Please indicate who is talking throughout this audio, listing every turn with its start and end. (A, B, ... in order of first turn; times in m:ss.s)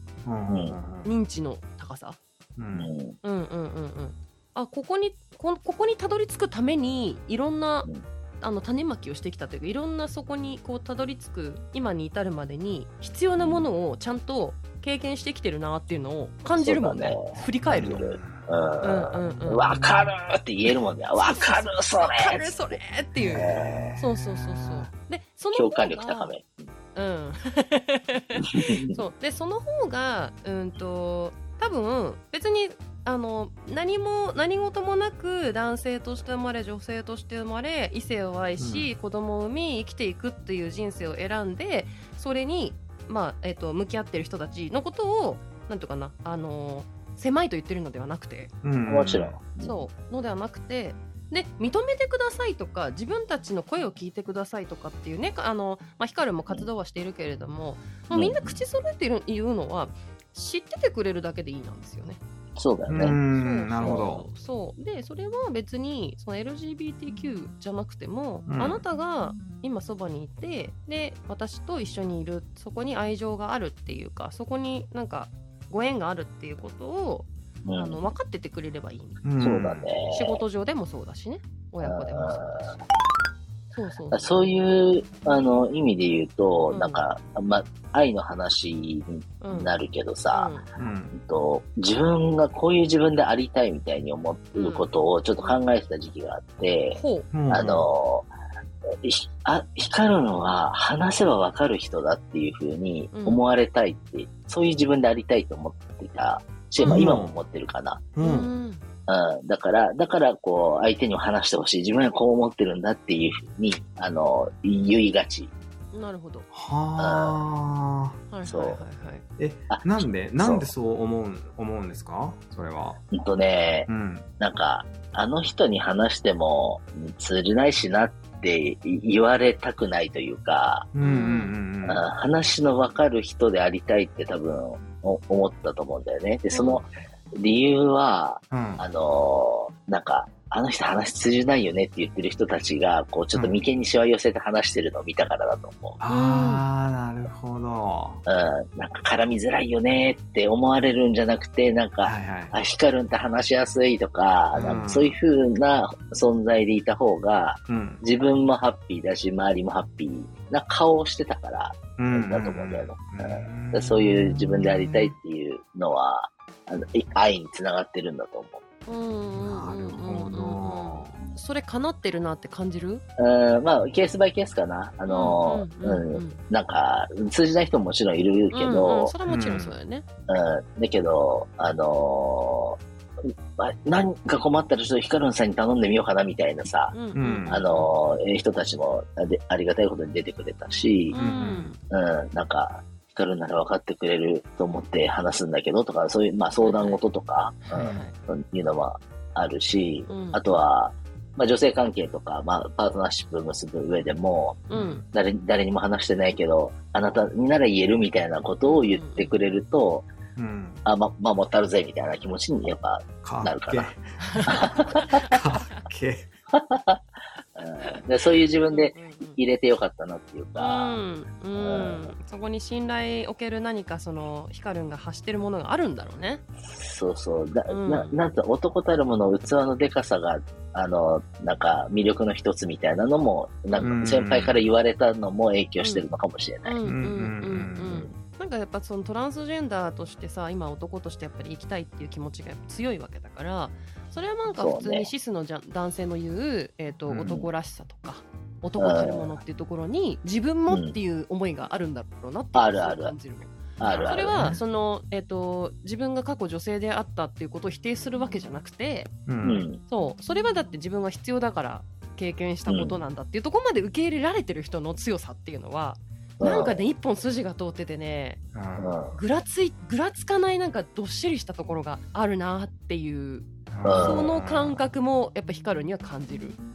0:00.2-0:01.1 A
0:00.5-0:00.8 B
0:01.0-0:02.2 C
0:02.6-0:02.9 A
0:02.7-0:03.2 B
0:03.2-0:07.9 C
0:08.4-0:18.0 C
0:16.5-0:22.8 B
0:17.7-0:18.5 A
0:18.8-0:19.7 C
0:19.6-0:20.1 A
0:21.2-0:26.3 C
0:23.1-0:24.9 A
0:23.3-0:23.9 B
0:25.5-0:26.7 B
0:26.9-0:48.5 C
0:28.4-0:29.0 B
0:38.6-0:38.9 A
0:48.6-0:49.4 A
0:48.9-0:49.8 B
0:49.6-1:02.2 C
0:58.1-0:58.6 B
1:02.6-1:03.2 B
1:02.9-1:04.3 A
1:03.3-1:19.2 C
1:08.5-1:08.8 A
1:17.6-1:18.1 B
1:19.2-1:19.9 A
1:19.4-1:20.4 B
1:20.1-1:22.8 C
1:21.8-1:22.8 B
1:23.7-1:24.5 C
1:24.1-1:30.5 B
1:26.7-1:27.0 C
1:29.4-1:29.7 C
1:30.3-1:30.7 C
1:30.8-1:31.2 A
1:31.1-1:38.3 B
1:34.5-1:34.9 C
1:36.9-1:37.3 C
1:37.3-1:37.9 A
1:39.0-1:48.1 B
1:43.1-1:43.4 C
1:46.8-1:47.0 C
1:46.8-1:47.4 A
1:48.1-1:48.5 A
1:48.2-1:48.8 C
1:49.1-1:55.5 B
1:55.9-1:56.5 C
1:56.5-1:58.2 A
1:57.0-1:57.4 B
1:58.3-1:59.2 C
1:58.4-1:58.8 B
1:59.4-2:03.0 A
1:59.7-2:00.7 B
2:03.1-2:03.9 B
2:03.9-2:04.3 A
2:04.4-2:10.9 B
2:10.9-2:12.0 A
2:11.0-2:11.5 C
2:11.8-2:26.0 B
2:16.5-2:16.8 C
2:18.5-2:18.8 A
2:23.3-2:23.6 A
2:26.0-2:28.2 A
2:26.1-2:26.6 C
2:28.2-2:48.6 B
2:32.0-2:32.6 A
2:34.5-2:35.2 A
2:37.7-2:38.0 A
2:42.0-2:45.1 A
2:48.8-2:53.0 C
2:49.4-2:51.1 A
2:53.2-2:59.1 B
2:55.1-2:56.4 C
2:58.5-3:00.0 C
2:59.2-2:59.7 A
3:00.3-3:06.9 B
3:06.9-3:07.9 C
3:07.1-3:07.6 A
3:07.5-3:11.2 B
3:11.1-3:11.8 C
3:11.1-3:11.8 A
3:11.9-3:30.1 B
3:16.6-3:17.0 C
3:17.7-3:18.1 C
3:17.7-3:18.0 A
3:20.1-3:20.4 C
3:24.7-3:25.0 C
3:24.7-3:25.0 A
3:28.6-3:29.4 C
3:30.4-3:30.8 A
3:30.8-3:33.9 B
3:33.2-3:36.3 A
3:34.2-3:35.8 C
3:34.5-3:35.2 B
3:36.5-3:37.0 B
3:37.6-3:41.0 B
3:38.7-3:39.4 C
3:40.6-3:46.4 C
3:41.6-3:42.1 B
3:46.7-3:56.8 B
3:47.7-3:48.2 C
3:53.8-3:54.6 A
3:55.8-3:56.0 C
3:56.6-4:19.1 C
3:56.8-3:58.1 A
4:04.5-4:05.1 B
4:07.1-4:07.4 A
4:08.8-4:09.4 B
4:10.7-4:11.0 B
4:12.5-4:13.1 B
4:13.8-4:14.5 B
4:13.8-4:14.6 A
4:19.3-4:19.7 A
4:19.4-4:19.8 B
4:19.9-4:28.4 C
4:22.7-4:23.0 B
4:26.4-4:26.8 B
4:28.5-4:29.0 A
4:28.8-4:29.2 B
4:29.1-4:36.6 C
4:33.7-4:34.8 A
4:33.8-4:34.3 B